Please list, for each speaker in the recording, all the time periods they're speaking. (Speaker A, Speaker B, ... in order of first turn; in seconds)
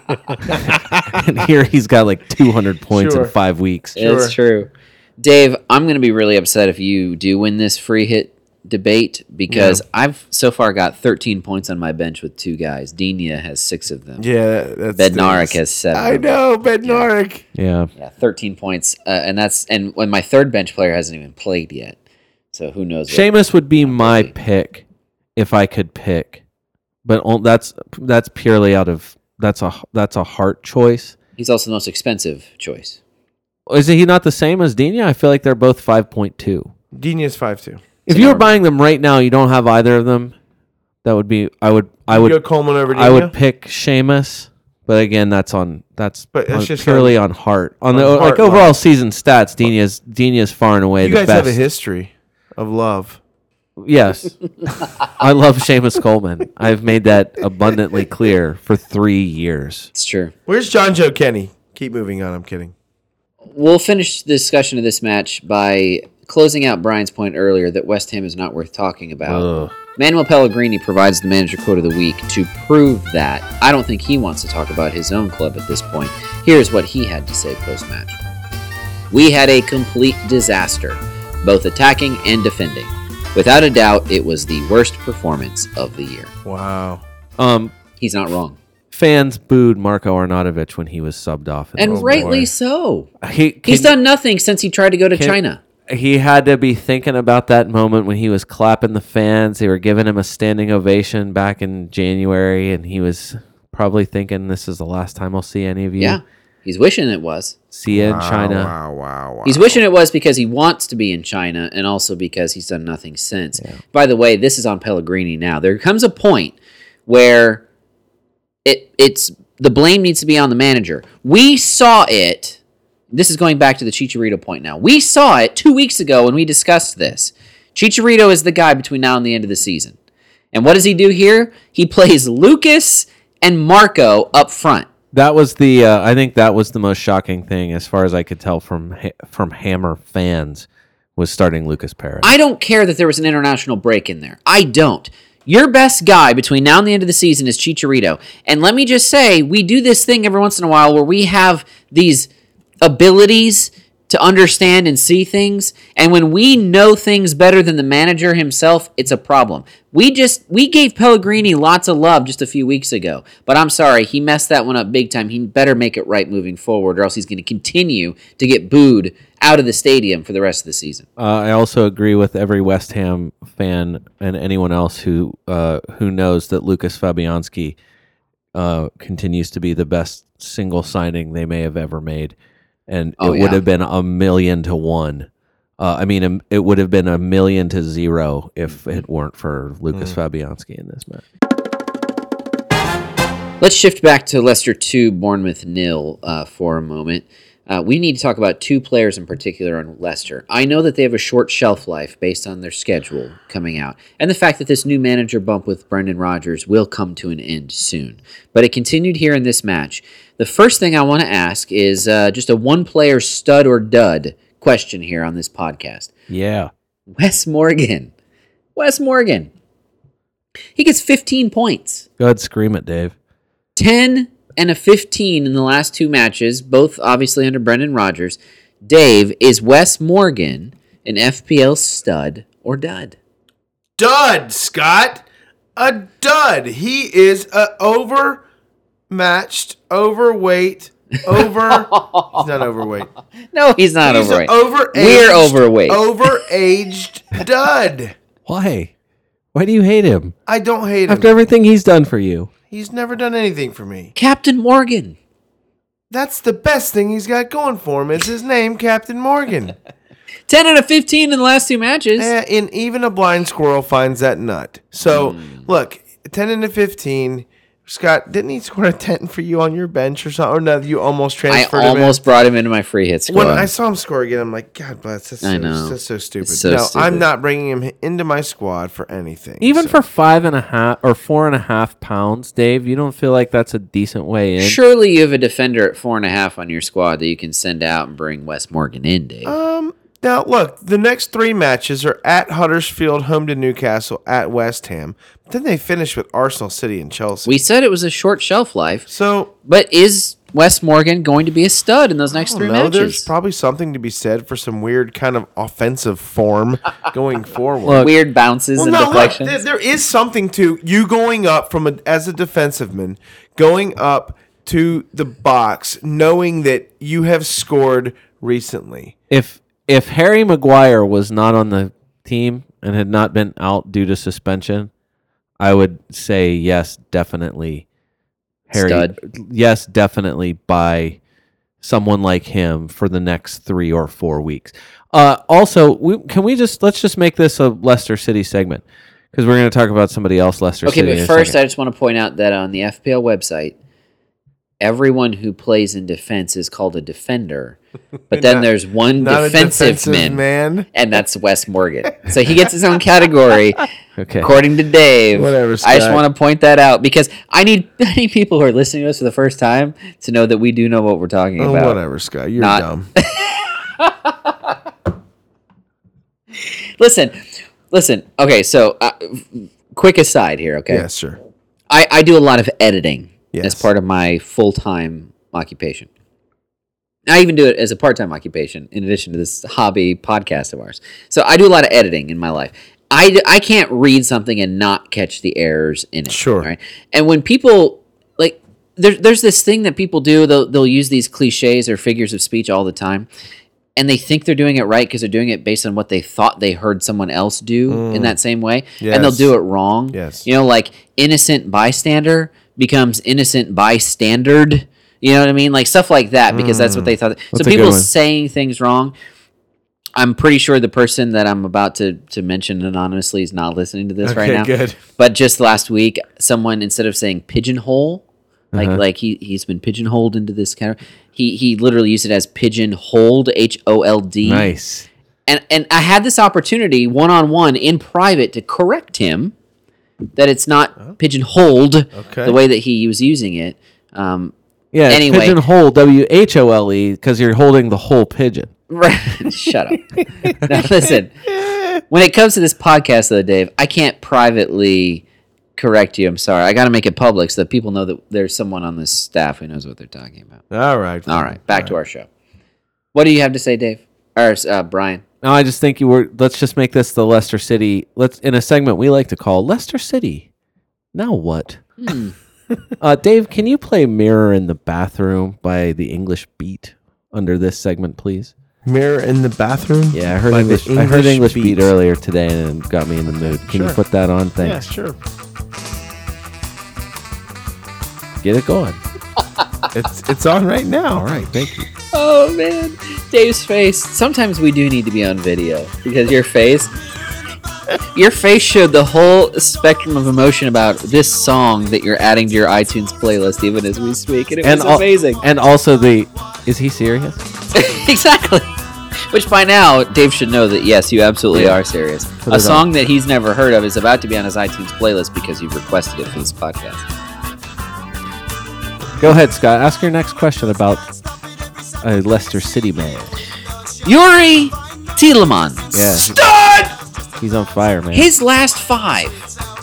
Speaker A: 0.5-4.0, 17.5-17.9, 23.1-24.8, 25.4-26.4, 27.0-31.1, 33.7-36.7, 38.1-40.3, 41.0-51.5, 53.8-59.9, 69.3-69.7, 87.4-87.7, 88.9-92.5, 93.2-93.9, 95.9-106.2, 107.7-108.7, 135.1-142.3, 171.2-177.8, 178.5-182.3, 182.9-185.3, 185.8-191.2, 216.3-216.7, 222.2-223.1, 248.4-248.9, 249.5-250.3, 251.1-252.5, 279.6-284.8, 307.8-308.1, 319.3-324.9, 325.6-327.8, 328.7-331.2, 331.8-341.6, 354.2-354.5, 407.5-408.1, 418.7-419.0, 424.4-425.1, 434.9-438.7, 455.4-460.5, 461.1-461.8, 463.0-468.5, 470.1-474.9, 478.4-479.0, 481.1-481.9, 494.6-497.4, 501.5-501.8, 502.4-502.9, 509.2-511.1, 512.0-513.3, 515.9-516.4, 517.4-518.3
Speaker B: 2.9-3.3, 4.0-4.3, 9.5-9.8, 14.2-17.4, 36.9-37.9, 42.1-43.3, 46.3-47.1, 47.9-48.8, 51.0-53.2, 60.5-62.7, 86.4-87.0, 91.8-92.4, 107.9-109.8, 234.0-235.2, 235.8-238.4, 239.1-243.1, 244.0-248.1, 250.5-251.3, 252.7-254.1, 256.1-259.7, 262.2-272.2, 273.3-280.0, 289.4-297.5, 299.1-299.5, 302.3-308.1, 308.8-319.1, 348.3-350.9, 355.3-356.2, 361.6-363.1, 370.9-371.4, 373.5-373.9, 386.3-386.7, 397.9-398.4, 399.0-399.5, 400.1-400.5, 406.5-407.1, 414.2-415.0, 432.1-432.6, 441.5-442.0, 450.7-451.9, 468.8-471.8, 473.3-474.0, 474.6-475.2, 479.9-481.3, 516.1-516.9
Speaker C: 4.0-14.2, 14.9-17.1, 17.9-22.0, 22.5-23.3, 23.8-24.3, 31.4-33.0, 38.1-38.5, 59.9-60.3, 63.5-78.2, 79.1-86.3, 88.0-88.6, 91.8-93.1, 93.6-95.6, 106.0-107.5, 109.4-116.5, 117.1-117.6, 118.6-122.6, 123.1-129.9, 130.5-134.9, 142.2-152.3, 152.8-171.1, 183.2-183.6, 193.6-216.1, 217.1-218.1, 218.8-219.5, 220.8-222.0, 223.8-233.2, 241.7-242.4, 243.5-246.3, 254.1-255.2, 260.5-262.3, 265.1-265.7, 271.5-273.7, 275.4-277.2, 284.6-289.5, 297.4-299.1, 299.6-303.3, 308.0-309.6, 328.7-329.1, 340.9-343.7, 344.8-347.8, 348.3-350.4, 350.9-353.9, 354.4-362.0, 362.6-364.7, 367.0-371.1, 371.9-376.1, 377.3-393.3, 393.9-409.1, 410.1-424.7, 425.5-429.5, 430.4-434.5, 435.1-435.6, 438.9-441.3, 442.1-445.2, 445.8-450.6, 451.3-452.3, 453.1-455.2, 462.0-462.3, 482.1-486.9, 488.1-495.4, 497.7-498.7, 499.3-507.1, 514.0-516.2, 518.1-519.5